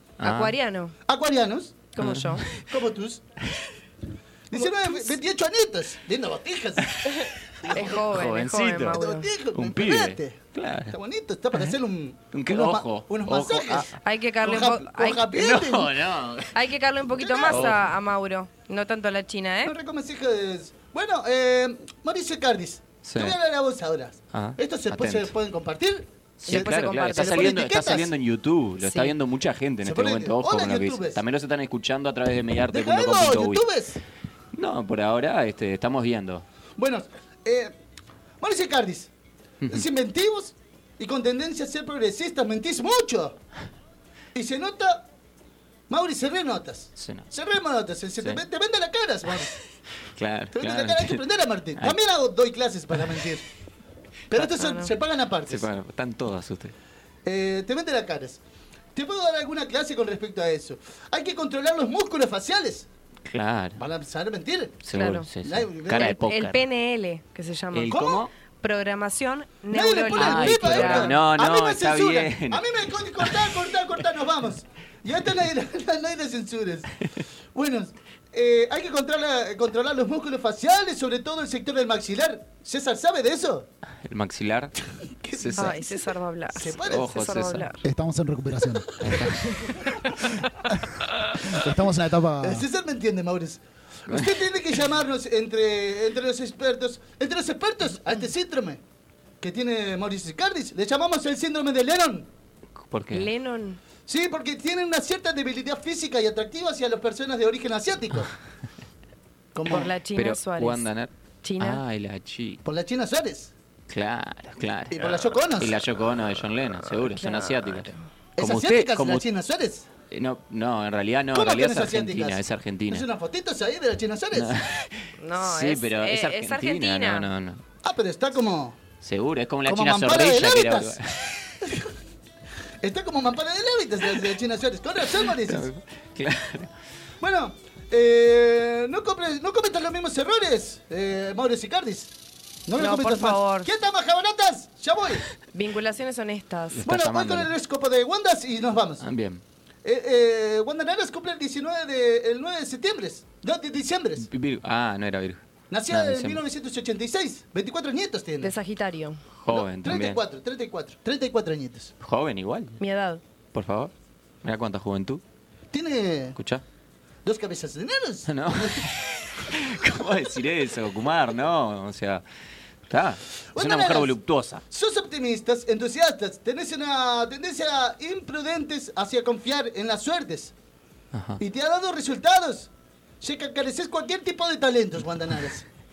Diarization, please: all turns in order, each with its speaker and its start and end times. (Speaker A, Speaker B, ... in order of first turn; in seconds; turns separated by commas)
Speaker A: 0.2-0.6, Speaker B: 0.2-0.9, Speaker C: 1.1-1.8, Speaker B: 1.9-2.4, Speaker A: 2.0-2.6, Speaker C: 2.7-3.2, Speaker C: 4.5-6.9, Speaker B: 4.5-5.2, Speaker B: 7.1-9.3, Speaker C: 7.6-8.1, Speaker A: 7.8-9.0, Speaker C: 8.9-13.9, Speaker A: 9.5-10.9, Speaker A: 12.3-13.9, Speaker B: 14.0-15.3, Speaker C: 14.4-16.0, Speaker A: 15.3-16.5, Speaker B: 16.5-19.8, Speaker C: 17.1-17.8, Speaker A: 17.5-17.9, Speaker C: 19.6-28.1, Speaker A: 23.0-23.4, Speaker A: 24.3-25.3, Speaker A: 26.4-33.6, Speaker B: 26.5-27.6, Speaker B: 28.8-29.1, Speaker C: 29.8-31.2, Speaker C: 32.7-34.0, Speaker A: 34.5-36.4, Speaker C: 36.8-37.7, Speaker C: 38.4-39.1, Speaker A: 39.6-39.9, Speaker C: 39.7-43.4, Speaker C: 44.3-45.0, Speaker C: 45.9-49.5, Speaker A: 47.0-47.3, Speaker A: 50.1-51.2, Speaker C: 50.5-53.5, Speaker C: 54.3-55.7, Speaker B: 54.4-54.9, Speaker A: 55.5-56.7, Speaker C: 57.2-58.4, Speaker C: 58.9-62.9, Speaker A: 63.3-63.8, Speaker C: 63.8-66.2, Speaker A: 64.8-66.6, Speaker B: 64.9-65.3, Speaker B: 65.9-68.1, Speaker A: 67.7-68.3, Speaker C: 67.9-68.2, Speaker B: 68.6-71.2, Speaker C: 69.7-76.9, Speaker A: 70.2-72.7, Speaker A: 73.2-73.5, Speaker C: 77.5-83.7, Speaker A: 84.0-84.7, Speaker C: 85.2-87.2, Speaker A: 85.3-85.8, Speaker B: 85.5-87.8, Speaker A: 86.9-87.7, Speaker D: 87.8-89.1, Speaker C: 89.0-89.7, Speaker A: 89.1-89.4, Speaker D: 90.7-92.6, Speaker C: 92.4-98.8, Speaker C: 99.4-102.3, Speaker A: 102.9-103.3, Speaker B: 103.1-103.8, Speaker C: 104.1-108.3, Speaker C: 109.5-109.9, Speaker B: 109.7-110.9, Speaker A: 110.2-112.6, Speaker B: 111.4-111.8, Speaker C: 112.6-113.5, Speaker A: 113.9-119.2, Speaker C: 114.9-115.8, Speaker B: 116.9-118.0, Speaker C: 118.3-119.9, Speaker A: 120.1-123.0, Speaker C: 121.3-124.5, Speaker A: 124.3-127.6, Speaker B: 125.2-127.3, Speaker C: 127.8-128.8, Speaker A: 129.0-131.5, Speaker C: 129.6-131.0, Speaker C: 131.6-131.9, Speaker C: 132.8-135.7, Speaker A: 135.2-136.7, Speaker C: 137.2-142.1, Speaker C: 142.7-145.2, Speaker B: 142.8-143.7, Speaker B: 145.5-146.8, Speaker A: 146.8-147.5, Speaker C: 146.8-149.0, Speaker A: 149.0-149.4, Speaker C: 149.8-154.2, Speaker A: 154.2-156.4, Speaker C: 155.7-158.5, Speaker B: 158.4-159.2, Speaker A: 159.4-160.2, Speaker C: 159.5-161.9, Speaker A: 162.0-162.8, Speaker B: 162.8-163.2, Speaker A: 163.5-163.9, Speaker A: 164.4-165.2, Speaker C: 165.7-166.4, Speaker A: 166.4-166.6, Speaker C: 167.2-168.9, Speaker A: 168.3-172.2, Speaker A: 172.9-174.6, Speaker C: 173.5-174.1, Speaker C: 174.7-180.5, Speaker A: 181.1-181.4, Speaker C: 181.4-182.7, Speaker C: 183.2-185.7